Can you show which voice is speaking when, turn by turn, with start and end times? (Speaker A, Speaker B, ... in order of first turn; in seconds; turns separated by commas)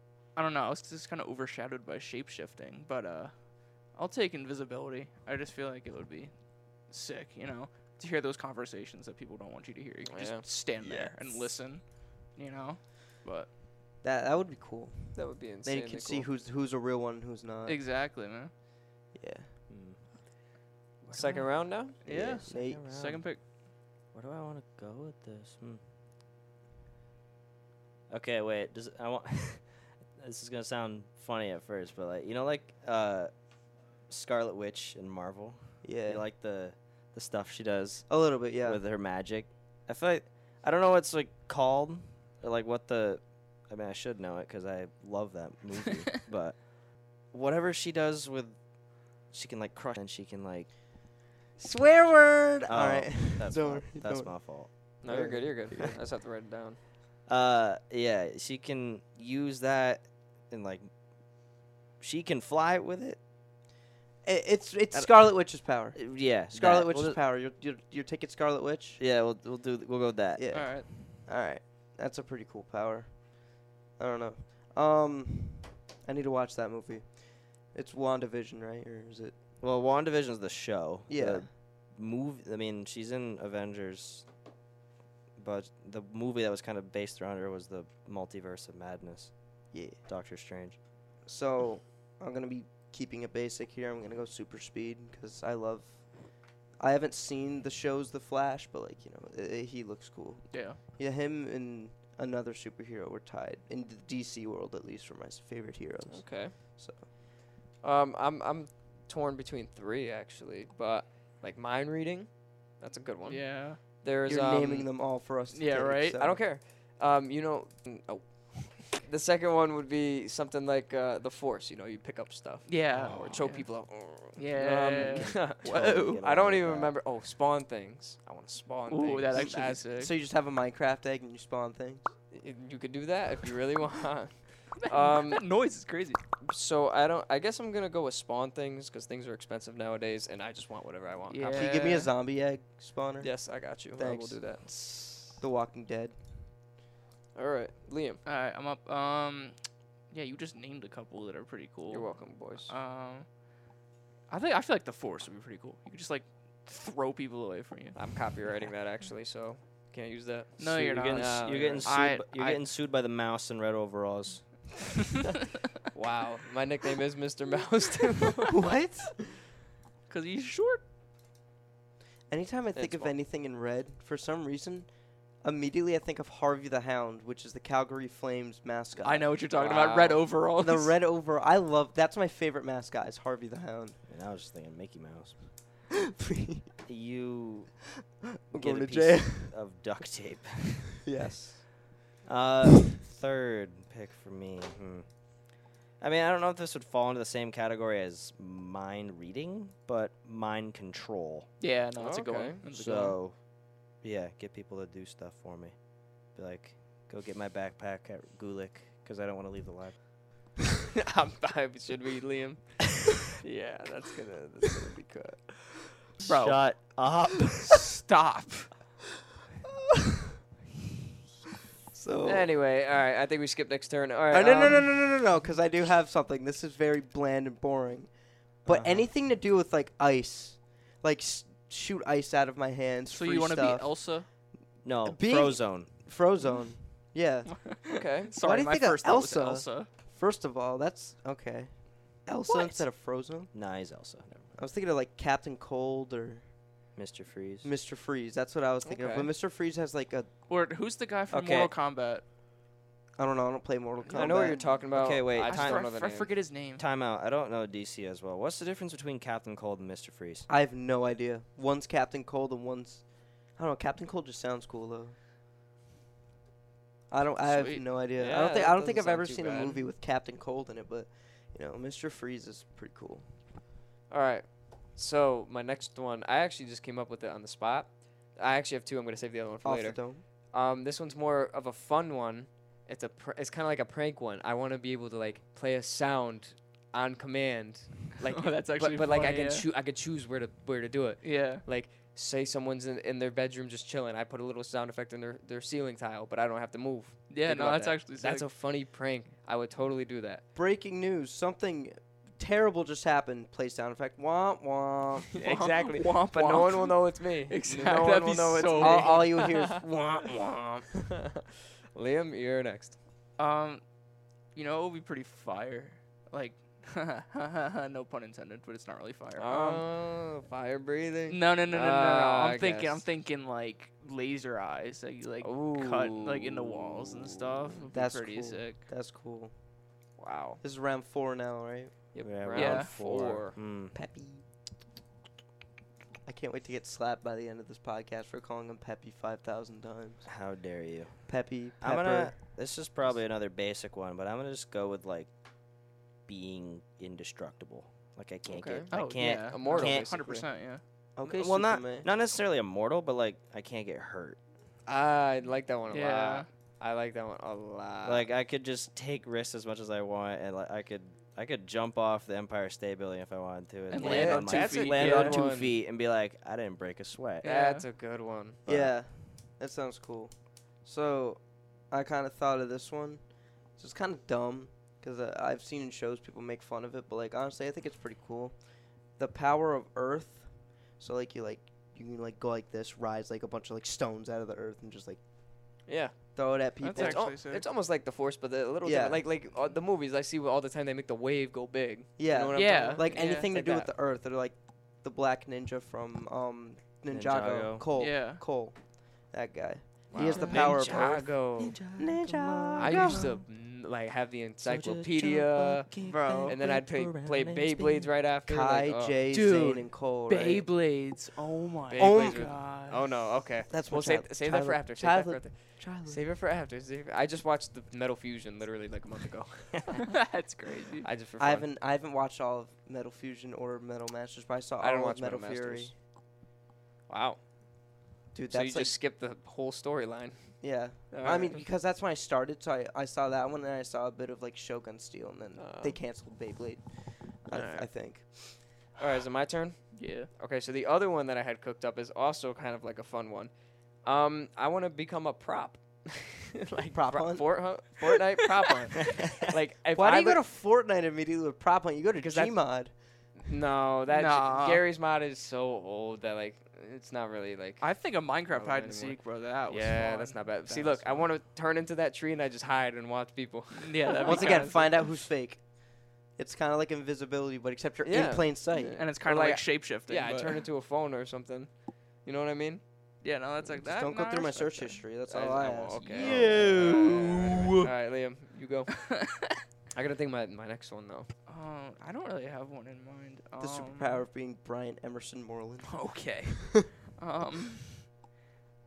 Speaker A: 0.3-13.5, Speaker B: 10.1-10.4, Speaker C: 10.8-11.2, Speaker D: 14.0-17.8, Speaker B: 15.1-16.3, Speaker A: 17.6-18.5, Speaker D: 19.1-19.5, Speaker C: 19.7-20.0, Speaker C: 21.0-21.5, Speaker B: 21.1-22.0, Speaker C: 22.0-23.2, Speaker A: 22.0-23.4, Speaker D: 22.1-22.9, Speaker C: 24.1-25.8, Speaker C: 28.1-33.3, Speaker C: 34.1-48.6, Speaker D: 35.8-36.2, Speaker D: 38.1-38.8, Speaker C: 49.2-50.8, Speaker D: 51.6-54.4, Speaker C: 52.6-54.7, Speaker D: 55.0-55.9, Speaker B: 55.0-56.8, Speaker C: 57.3-60.9, Speaker C: 62.0-63.2, Speaker D: 64.2-69.0, Speaker C: 64.9-67.2, Speaker C: 69.0-70.8, Speaker D: 70.4-79.4, Speaker A: 70.5-70.9, Speaker C: 79.6-84.3, Speaker D: 81.1-81.5, Speaker C: 85.4-90.8, Speaker D: 89.7-90.0, Speaker D: 91.2-107.0, Speaker A: 100.5-100.8, Speaker B: 106.1-106.5, Speaker B: 107.8-114.9, Speaker A: 113.2-113.8, Speaker D: 114.2-116.4, Speaker A: 115.5-116.2, Speaker B: 116.2-129.8, Speaker A: 122.7-126.2, Speaker C: 125.0-127.0, Speaker A: 128.9-130.1, Speaker D: 129.4-132.1, Speaker B: 132.3-135.4, Speaker A: 134.8-136.2, Speaker B: 136.4-141.7, Speaker A: 141.3-142.1, Speaker D: 141.5-144.6, Speaker B: 143.2-145.4, Speaker D: 145.4-146.2, Speaker B: 147.3-148.2, Speaker A: 148.2-149.6, Speaker A: 150.1-153.3, Speaker B: 151.9-152.7, Speaker A: 154.3-158.1, Speaker B: 157.9-161.9, Speaker A: 160.6-162.6, Speaker C: 160.6-164.7, Speaker B: 165.9-168.6, Speaker D: 168.5-169.2, Speaker A: 170.1-170.8, Speaker D: 172.3-179.3, Speaker B: 172.8-173.1, Speaker A: 179.0-181.0, Speaker B: 179.6-180.3, Speaker D: 180.6-184.0, Speaker C: 184.1-185.6, Speaker D: 186.2-186.7, Speaker C: 186.9-187.8, Speaker D: 188.5-189.6, Speaker C: 188.5-190.9, Speaker D: 191.0-191.9, Speaker C: 192.2-195.2, Speaker C: 196.0-201.5, Speaker A: 201.6-203.2, Speaker B: 201.9-202.6, Speaker C: 202.7-203.4, Speaker C: 204.0-205.8, Speaker C: 206.3-209.9, Speaker B: 211.0-215.5, Speaker C: 216.2-217.8, Speaker A: 216.2-216.9, Speaker A: 217.6-218.7, Speaker D: 221.9-222.5, Speaker B: 222.2-224.9, Speaker D: 224.3-234.2, Speaker A: 233.1-234.3, Speaker C: 234.8-235.9, Speaker D: 235.0-237.8, Speaker A: 237.7-239.9, Speaker B: 237.9-238.3, Speaker D: 238.4-243.5, Speaker A: 242.5-242.8, Speaker C: 243.5-244.5, Speaker D: 244.6-246.4, Speaker C: 246.9-247.7, Speaker D: 247.6-250.3, Speaker B: 248.8-249.3, Speaker A: 250.5-252.2, Speaker C: 251.3-251.7, Speaker D: 253.2-254.7, Speaker A: 254.0-254.6, Speaker B: 254.1-256.3, Speaker C: 254.9-255.9, Speaker A: 255.4-256.8, Speaker C: 256.8-260.5, Speaker D: 260.5-265.1, Speaker D: 267.1-273.3, Speaker A: 267.4-267.9, Speaker B: 268.1-269.8, Speaker B: 274.1-300.4, Speaker D: 279.6-280.2, Speaker A: 288.3-289.6, Speaker A: 291.2-291.6, Speaker A: 297.3-298.5, Speaker D: 300.5-305.3, Speaker B: 305.3-310.3, Speaker A: 305.4-309.5, Speaker D: 307.7-310.8, Speaker B: 310.9-312.9, Speaker A: 313.4-313.8, Speaker A: 314.5-319.8, Speaker B: 319.4-323.0, Speaker A: 321.3-328.8, Speaker B: 325.4-327.2, Speaker D: 327.9-329.5, Speaker B: 330.2-330.6, Speaker D: 330.6-332.1, Speaker B: 332.1-333.6, Speaker C: 332.2-333.9, Speaker A: 332.5-332.9, Speaker D: 333.9-334.4, Speaker D: 336.2-340.4, Speaker C: 340.2-345.3, Speaker D: 341.3-342.4, Speaker C: 346.2-350.2, Speaker B: 348.4-350.5, Speaker A: 348.9-350.8, Speaker D: 351.1-352.1, Speaker C: 351.2-354.4, Speaker B: 354.9-358.3, Speaker A: 355.9-356.5, Speaker C: 358.0-367.4, Speaker A: 363.9-365.4, Speaker B: 364.0-365.8, Speaker A: 367.4-367.8, Speaker B: 367.4-368.6, Speaker D: 368.6-385.8, Speaker B: 385.9-393.9, Speaker D: 386.3-387.3, Speaker A: 386.8-387.6, Speaker D: 388.8-389.2, Speaker D: 392.2-401.3, Speaker A: 392.5-393.5, Speaker C: 397.1-397.9, Speaker A: 397.9-398.4, Speaker A: 400.1-400.6, Speaker B: 400.1-401.8, Speaker C: 400.2-403.4, Speaker D: 402.0-403.3, Speaker B: 402.8-405.9, Speaker C: 404.6-408.1, Speaker A: 406.0-406.5, Speaker B: 406.5-409.2, Speaker D: 408.5-410.7, Speaker A: 409.3-413.0, Speaker B: 411.9-420.1, Speaker D: 412.0-412.7, Speaker D: 413.7-416.2, Speaker A: 420.1-421.1, Speaker B: 421.0-421.7, Speaker D: 421.4-425.9, Speaker B: 424.8-425.9, Speaker B: 427.1-427.4, Speaker D: 428.3-429.0, Speaker B: 428.5-431.6, Speaker D: 430.6-438.6, Speaker B: 435.6-436.0, Speaker B: 437.5-450.4, Speaker A: 439.9-440.3, Speaker D: 446.9-448.0, Speaker D: 449.9-453.0, Speaker B: 452.1-464.9, Speaker A: 454.1-454.8, Speaker A: 457.8-461.2, Speaker A: 463.7-465.0, Speaker D: 464.2-469.0, Speaker B: 468.0-472.8, Speaker A: 468.9-470.6, Speaker A: 473.2-475.0, Speaker D: 473.7-477.2, Speaker B: 475.3-479.1, Speaker A: 476.0-477.9, Speaker A: 479.1-479.5, Speaker B: 479.9-481.3, Speaker A: 481.5-484.2, Speaker D: 483.6-486.6, Speaker A: 485.8-488.1